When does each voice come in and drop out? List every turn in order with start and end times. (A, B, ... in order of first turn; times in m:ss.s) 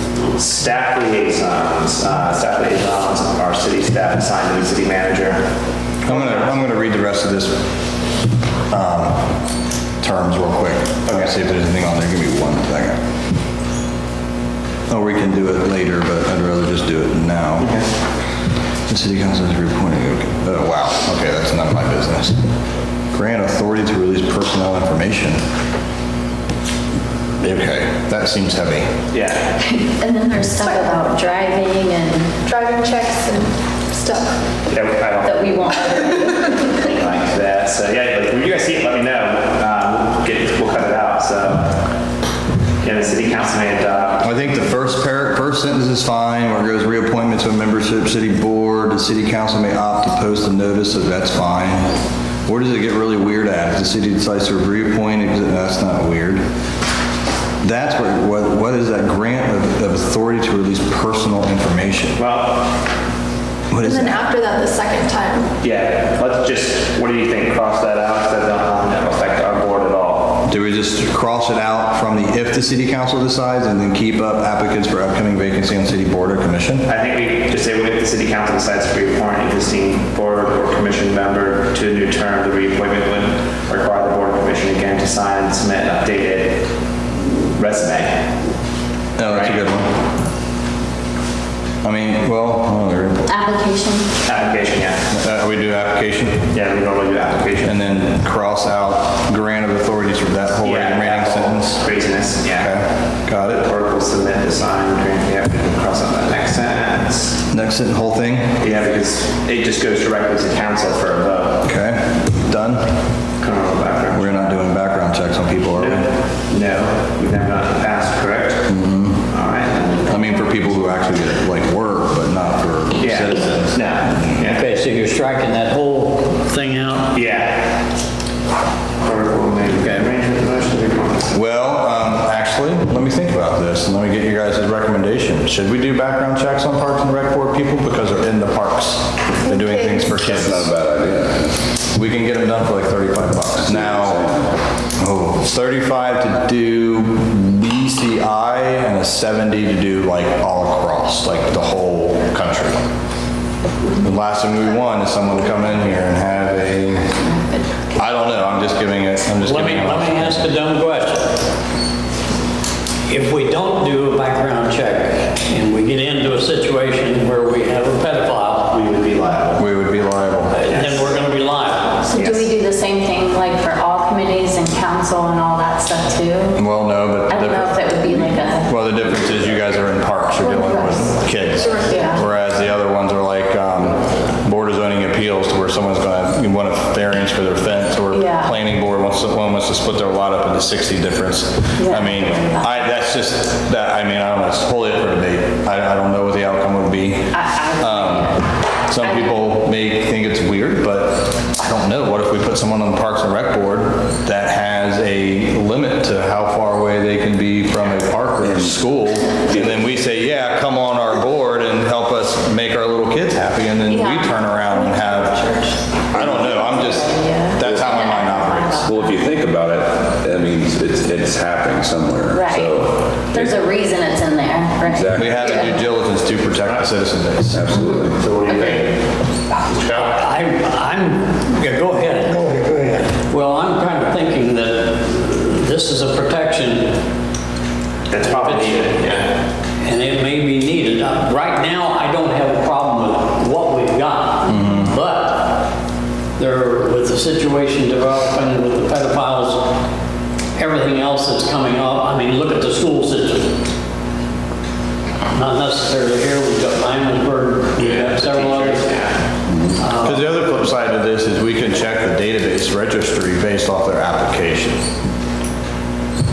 0:00.3-0:06.5 A
0:06.0-0:07.7 B
0:08.7-0:09.4 B
0:10.0-0:13.0 B
0:14.9-0:17.8 B
0:17.6-0:17.9 A
0:18.9-0:22.4 B
0:23.1-0:25.4 B
0:27.4-0:28.9 B
0:29.1-0:29.5 A
0:29.6-0:32.4 C
0:30.6-0:30.9 D
0:32.4-0:34.4 D
0:34.7-0:35.8 A
0:35.2-0:36.9 C
0:36.8-0:41.8 A
0:42.8-0:44.3 A
0:44.2-0:56.4 B
0:57.6-1:02.2 B
1:02.2-1:02.8 A
1:03.7-1:04.3 B
1:03.8-1:05.5 D
1:05.6-1:10.4 A
1:10.4-1:16.9 B
1:16.8-1:26.7 A
1:27.5-1:28.3 A
1:29.2-1:30.0 B
1:29.3-1:29.6 A
1:31.8-1:33.3 B
1:33.3-1:34.2 C
1:34.2-1:35.1 A
1:35.1-1:36.5 B
1:36.5-1:37.8 A
1:37.6-1:41.9 B
1:40.6-1:42.7 A
1:42.5-1:43.7 B
1:43.3-1:47.4 A
1:47.5-1:48.6 B
1:48.6-1:51.7 A
1:51.6-1:53.0 B
1:53.4-1:54.6 A
1:54.1-1:56.1 B
1:55.8-2:00.4 A
1:58.7-1:59.3 B
2:00.1-2:03.9 B
2:03.0-2:04.7 A
2:04.5-2:07.1 E
2:07.1-2:07.8 A
2:09.0-2:11.4 A
2:11.3-2:20.7 B
2:19.5-2:20.0 D
2:20.2-2:21.7 F
2:21.9-2:32.8 B
2:23.5-2:24.6 F
2:34.0-2:37.3 B
2:37.2-2:37.8 C
2:37.9-2:40.5 B
2:39.4-2:41.4 E
2:43.1-2:49.0 E
2:48.8-2:49.6 A
2:49.6-2:50.6 B
2:50.5-2:51.1 A
2:50.6-2:52.0 E
2:52.0-2:52.6 A
2:52.1-2:56.6 C
2:56.6-3:35.4 B
2:57.3-2:58.8 C
3:00.4-3:01.1 C
3:01.6-3:02.2 D
3:01.8-3:02.2 C
3:08.1-3:08.5 C
3:11.8-3:12.9 C
3:17.3-3:19.4 C
3:28.4-3:29.8 F
3:33.9-3:39.2 C
3:36.1-3:36.6 F
3:36.1-3:38.9 B
3:37.6-3:38.2 F
3:38.8-3:43.6 F
3:42.3-3:45.8 C
3:44.8-3:45.7 F
3:45.2-3:47.7 B
3:47.5-3:48.2 F
3:47.7-3:48.9 C
3:48.2-3:49.0 A
3:49.6-3:50.2 A
3:49.8-3:57.0 E
3:58.1-3:59.3 A
3:58.2-3:59.0 E
3:59.8-4:05.7 E
4:04.5-4:04.9 B
4:06.4-4:09.8 E
4:10.6-4:13.7 E
4:15.3-4:18.9 E
4:17.8-4:19.2 A
4:19.5-4:19.8 F
4:19.8-4:20.3 E
4:20.0-4:24.8 B